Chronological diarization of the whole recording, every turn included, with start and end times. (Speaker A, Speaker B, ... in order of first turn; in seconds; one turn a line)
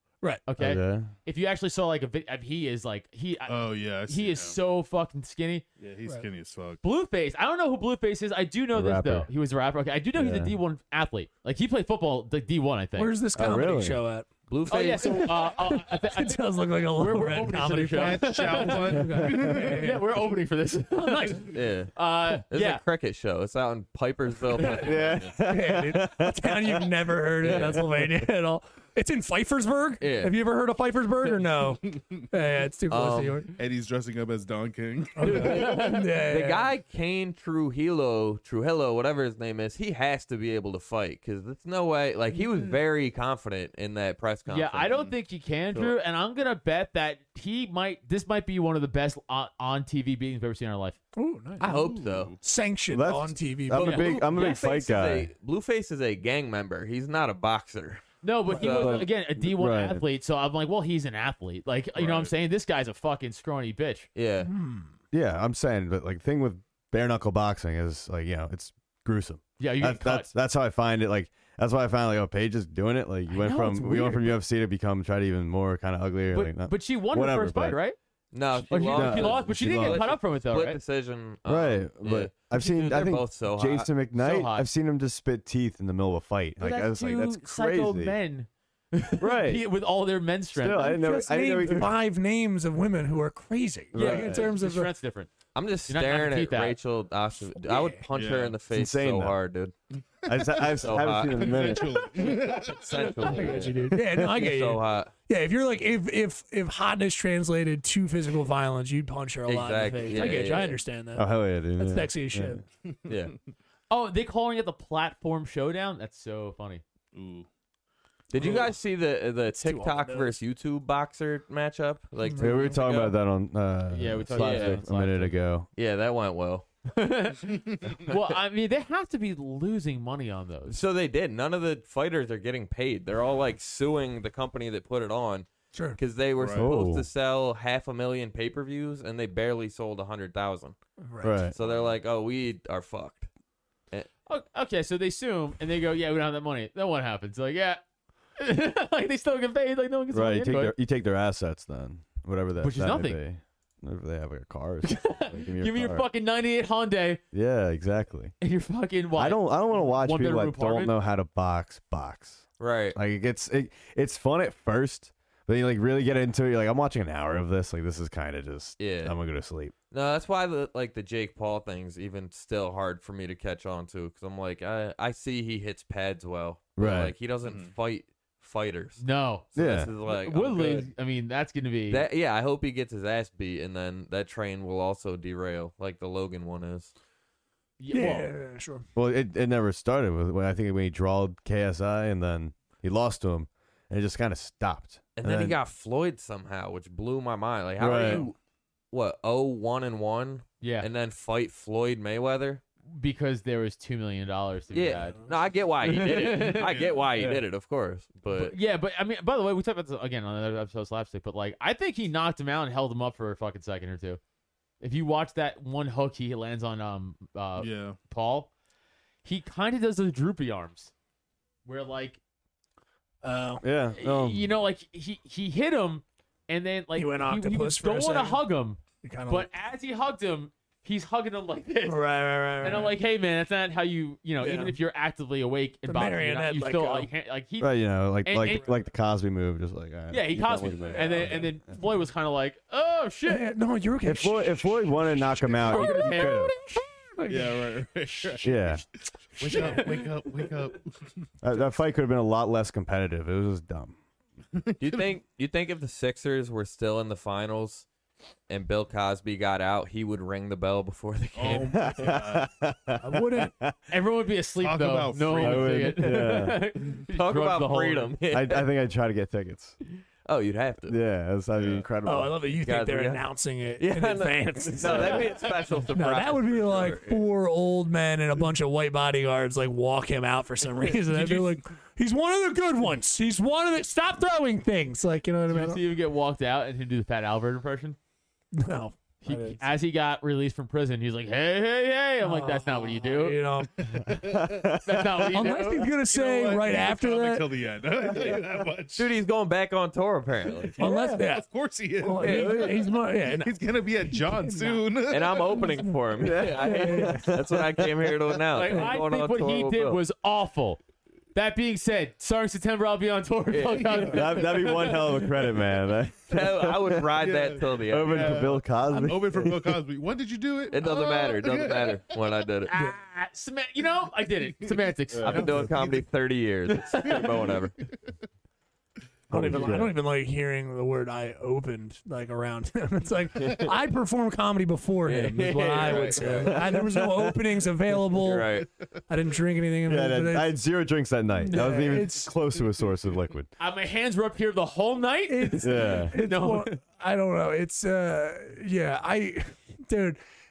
Speaker A: 0.4-5.6
Speaker B: 0.6-1.1
Speaker C: 3.5-4.6
Speaker C: 5.8-6.8
Speaker A: 6.8-13.1
Speaker B: 8.7-9.3
Speaker B: 10.1-10.6
Speaker D: 12.9-14.3
Speaker B: 13.3-14.0
Speaker E: 14.5-15.5
Speaker A: 14.7-22.8
Speaker D: 15.0-19.9
Speaker C: 17.9-20.0
Speaker E: 21.5-21.9
Speaker E: 22.5-25.3
Speaker B: 24.7-26.9
Speaker D: 25.4-33.5
Speaker E: 27.4-28.1
Speaker E: 30.0-30.3
Speaker E: 32.9-33.4
Speaker C: 33.5-35.8
Speaker D: 35.2-36.7
Speaker A: 35.3-36.0
Speaker E: 35.3-45.0
Speaker A: 44.5-51.0
Speaker D: 51.1-51.8
Speaker E: 51.6-52.3
Speaker C: 51.6-52.4
Speaker D: 52.4-54.1
Speaker B: 52.9-55.3
Speaker E: 53.7-59.1
Speaker A: 58.2-64.1
Speaker D: 58.5-59.0
Speaker B: 59.4-60.0
Speaker C: 61.9-62.3
Speaker E: 64.1-64.5
Speaker D: 64.4-64.9
Speaker B: 65.1-77.8
Speaker A: 69.6-70.3
Speaker D: 73.3-74.2
Speaker A: 76.3-78.0
Speaker E: 78.3-83.9
Speaker B: 78.7-80.1
Speaker A: 78.7-80.8
Speaker B: 81.5-88.1
Speaker A: 84.1-84.7
Speaker A: 86.6-90.9
Speaker B: 89.2-89.6
Speaker B: 90.5-91.9
Speaker D: 90.8-94.9
Speaker B: 93.9-94.4
Speaker A: 93.9-95.3
Speaker E: 95.5-99.7
Speaker A: 95.9-96.8
Speaker D: 97.7-98.0
Speaker C: 98.1-98.5
Speaker B: 98.7-99.4
Speaker B: 100.2-102.1
Speaker C: 100.2-103.7
Speaker E: 100.8-105.1
Speaker D: 103.2-111.2
Speaker E: 109.5-110.8
Speaker B: 111.2-112.6
Speaker D: 111.8-112.6
Speaker C: 112.8-113.2
Speaker E: 113.1-113.3
Speaker A: 113.9-116.8
Speaker C: 117.1-117.5
Speaker E: 118.3-123.1
Speaker D: 118.4-118.7
Speaker D: 119.6-120.3
Speaker D: 122.3-122.8
Speaker B: 122.4-125.7
Speaker A: 123.9-125.3
Speaker E: 124.3-124.8
Speaker E: 125.8-126.7
Speaker A: 126.9-130.8
Speaker E: 130.7-140.8
Speaker D: 135.7-136.0
Speaker C: 136.4-136.7
Speaker B: 136.5-137.1
Speaker D: 141.0-141.5
Speaker B: 141.2-141.5
Speaker E: 141.5-143.3
Speaker C: 141.6-141.9
Speaker A: 144.3-147.8
Speaker A: 148.4-150.7
Speaker B: 150.1-156.1
Speaker A: 152.6-153.2
Speaker A: 154.8-157.2
Speaker B: 157.3-158.3
Speaker A: 158.4-160.9
Speaker B: 159.2-169.7
Speaker E: 162.6-163.0
Speaker E: 168.8-169.2
Speaker E: 169.9-179.0
Speaker B: 176.8-177.1
Speaker C: 177.4-177.7
Speaker A: 179.0-179.5
Speaker E: 179.5-180.9
Speaker B: 179.6-179.9
Speaker A: 180.0-182.1
Speaker E: 181.9-186.9
Speaker A: 187.8-188.3
Speaker D: 187.9-188.8
Speaker B: 188.9-195.6
Speaker E: 195.2-198.3
Speaker B: 197.8-198.3
Speaker E: 198.9-202.6
Speaker A: 200.6-200.9
Speaker A: 202.8-205.2
Speaker E: 204.7-208.5
Speaker A: 205.8-206.7
Speaker C: 206.6-207.0
Speaker A: 208.3-214.2
Speaker A: 214.8-218.5
Speaker C: 217.6-218.0
Speaker A: 219.2-220.9
Speaker A: 221.6-222.2
Speaker D: 223.2-223.6
Speaker B: 223.6-224.5
Speaker A: 223.9-238.7
Speaker D: 226.9-228.4
Speaker D: 229.0-229.5
Speaker D: 231.8-233.0
Speaker D: 234.4-234.8
Speaker D: 235.9-237.1
Speaker B: 237.6-241.6
Speaker A: 240.1-243.5
Speaker C: 240.9-241.3
Speaker D: 243.3-247.7
Speaker B: 244.0-246.5
Speaker A: 245.6-246.8
Speaker C: 247.3-248.7
Speaker A: 248.2-248.8
Speaker B: 248.4-248.8
Speaker C: 249.4-251.3
Speaker A: 249.4-250.4
Speaker D: 249.4-249.8
Speaker B: 251.4-253.9
Speaker C: 254.5-255.1
Speaker E: 254.8-257.9
Speaker E: 258.5-262.1
Speaker C: 261.4-262.5
Speaker B: 261.7-263.7
Speaker D: 263.0-263.5
Speaker A: 263.9-268.1
Speaker C: 264.6-266.1
Speaker B: 265.3-266.6
Speaker E: 267.1-268.6
Speaker B: 268.3-269.8
Speaker E: 270.2-270.9
Speaker B: 270.9-272.5
Speaker C: 271.6-271.9
Speaker D: 272.0-285.8
Speaker E: 272.6-273.2
Speaker E: 273.8-277.2
Speaker C: 281.1-281.5
Speaker A: 285.5-288.0
Speaker D: 288.6-289.6
Speaker A: 289.2-293.4
Speaker D: 292.2-294.1
Speaker C: 293.9-294.6
Speaker B: 294.2-295.0
Speaker A: 294.8-295.9
Speaker D: 295.3-297.5
Speaker C: 296.0-299.1
Speaker E: 298.9-300.8
Speaker C: 300.6-305.9
Speaker D: 300.8-301.5
Speaker D: 302.0-303.5
Speaker E: 302.2-302.6
Speaker D: 304.1-304.8
Speaker E: 305.1-310.0
Speaker B: 306.2-308.1
Speaker D: 306.3-307.3
Speaker A: 308.5-310.8
Speaker A: 311.3-315.0
Speaker E: 313.5-314.4
Speaker B: 314.1-317.1
Speaker E: 316.3-318.5
Speaker C: 317.2-322.0
Speaker B: 317.9-319.8
Speaker E: 320.7-322.7
Speaker A: 322.7-325.9
Speaker E: 325.2-327.7
Speaker B: 325.2-325.7
Speaker A: 326.8-327.3
Speaker C: 327.0-327.5
Speaker B: 329.3-329.9
Speaker D: 329.3-340.5
Speaker E: 335.0-336.8
Speaker C: 335.8-336.4
Speaker B: 336.5-337.3
Speaker E: 338.2-338.7
Speaker B: 339.9-343.5
Speaker D: 341.4-342.3
Speaker A: 343.6-346.8
Speaker D: 345.3-350.2
Speaker B: 345.6-346.1